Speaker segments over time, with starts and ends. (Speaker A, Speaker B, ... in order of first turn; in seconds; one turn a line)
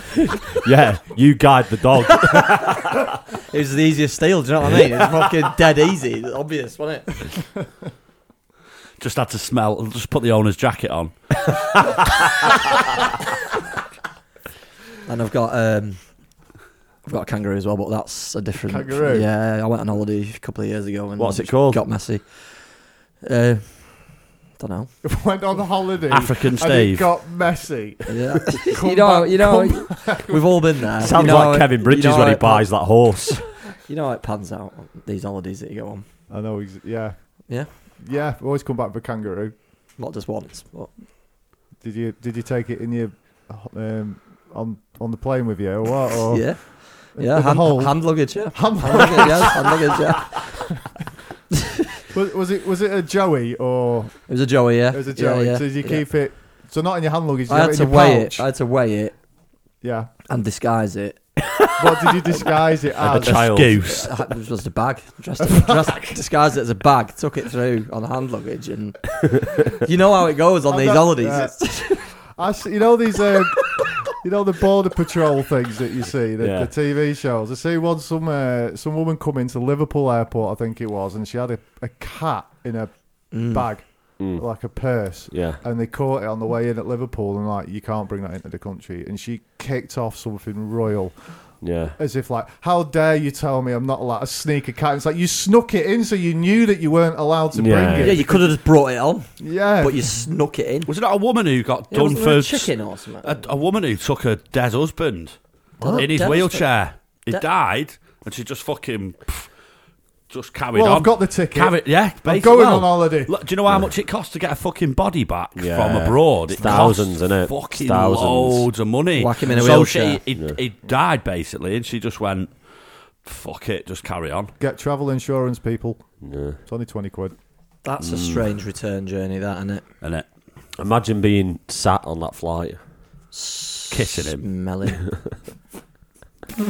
Speaker A: 0.3-3.1
Speaker B: 3.5-7.2
Speaker C: 9.0-11.4
Speaker B: 15.1-16.0
Speaker B: 17.0-24.9
Speaker D: 18.7-19.3
Speaker A: 21.2-21.8
Speaker D: 25.0-31.4
Speaker C: 26.1-27.1
Speaker B: 28.1-32.7
Speaker A: 31.0-33.4
Speaker B: 33.7-36.0
Speaker D: 36.3-39.5
Speaker B: 40.0-40.9
Speaker D: 41.8-50.5
Speaker B: 46.3-50.4
Speaker D: 52.1-54.2
Speaker B: 54.3-56.0
Speaker D: 54.9-58.5
Speaker B: 57.5-59.1
Speaker D: 59.8-60.1
Speaker B: 60.3-61.2
Speaker D: 61.8-63.5
Speaker A: 61.8-62.3
Speaker A: 62.9-64.0
Speaker C: 63.1-64.1
Speaker B: 63.9-72.1
Speaker D: 65.4-66.2
Speaker D: 70.7-71.7
Speaker D: 72.3-98.5
Speaker B: 73.4-73.9
Speaker A: 76.4-76.7
Speaker B: 83.3-83.7
Speaker A: 84.2-84.4
Speaker A: 85.3-85.6
Speaker A: 91.6-92.0
Speaker A: 97.5-98.2
Speaker B: 98.0-100.9
Speaker D: 99.4-100.1
Speaker C: 100.9-105.3
Speaker B: 101.9-103.4
Speaker D: 105.8-106.0
Speaker B: 105.8-106.7
Speaker C: 105.9-109.5
Speaker C: 110.3-122.5
Speaker D: 110.7-113.3
Speaker A: 115.5-118.7
Speaker D: 116.6-116.9
Speaker B: 119.2-120.2
Speaker C: 123.2-124.5
Speaker D: 124.6-126.1
Speaker A: 126.2-126.6
Speaker D: 126.7-127.3
Speaker B: 127.8-129.8
Speaker A: 130.8-132.8
Speaker B: 133.3-135.0
Speaker C: 133.9-134.4